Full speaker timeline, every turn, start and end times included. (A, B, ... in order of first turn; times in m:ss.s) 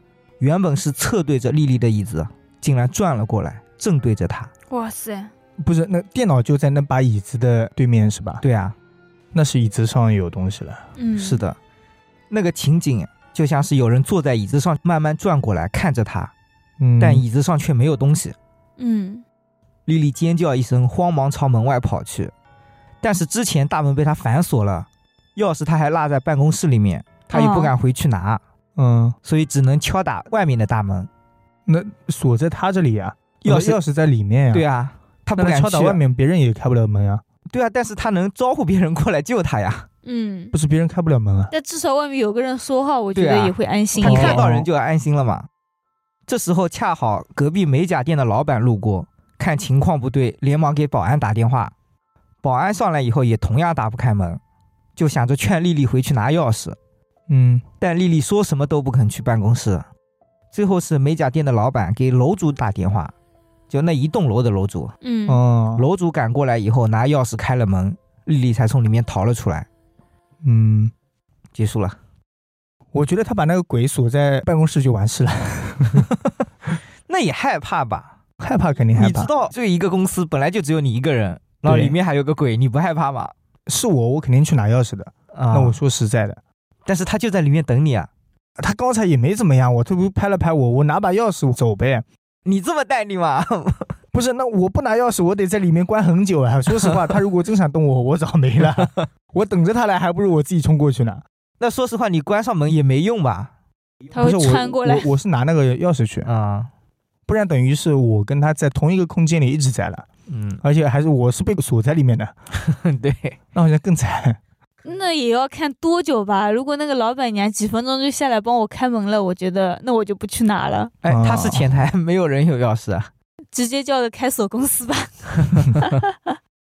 0:00.4-0:04.5 A
0:04.7-0:05.3 B
0:05.6-0:08.4 C
0:08.4-0:08.8 A
0:09.3-0:10.8 C
0:11.0-0:11.4 B
0:11.2-0:11.6 A
0:12.3-0:16.3 A
0:16.8-0:17.2 C
0:17.0-0:18.4 A
0:18.8-0:19.2 B
0:19.9-0:22.3 A
0:23.0-0:28.4 A
0:27.3-0:27.7 B
0:28.8-0:29.2 C
0:29.2-0:31.1 A
0:31.7-0:34.7 C
0:33.4-0:33.8 A
0:34.5-0:36.0 A
0:35.4-0:37.2 C
0:37.5-0:39.9 A
0:40.0-0:40.5 B
0:40.5-0:41.5 C
0:41.5-0:44.4 B
0:43.1-0:45.5 A
0:44.0-0:44.7 C
0:46.3-0:51.7 A
0:52.4-0:54.4 A
0:55.0-0:56.8 A
0:57.3-0:57.6 C
0:57.8-0:59.8 A
1:00.5-1:03.1 A
1:03.7-1:05.0 A
1:05.0-1:05.4 B
1:05.3-1:05.8 C
1:05.8-1:09.7 A
1:10.4-1:10.9 C
1:11.6-1:12.0 A
1:12.9-1:16.1 C
1:17.1-1:18.2 A
1:18.4-1:19.3 C
1:18.9-1:23.3 A
1:21.6-1:22.0 C
1:23.7-1:26.4 C
1:25.3-1:25.8 A
1:26.9-1:28.1 A
1:28.6-1:32.0 C
1:32.4-1:33.9 A
1:34.1-1:41.2 C
1:38.8-1:39.0 A
1:41.6-1:43.5 A
1:44.1-1:45.1 B
1:44.2-1:46.3 C
1:46.2-1:46.7 A
1:47.3-1:50.1 C
1:50.3-1:50.6 A
1:50.6-1:52.3 C
1:52.6-1:53.4 A
1:53.5-1:54.4 C
1:54.8-2:00.9 B
2:01.0-2:03.1 A
2:01.1-2:01.7 C
2:03.5-2:06.4 B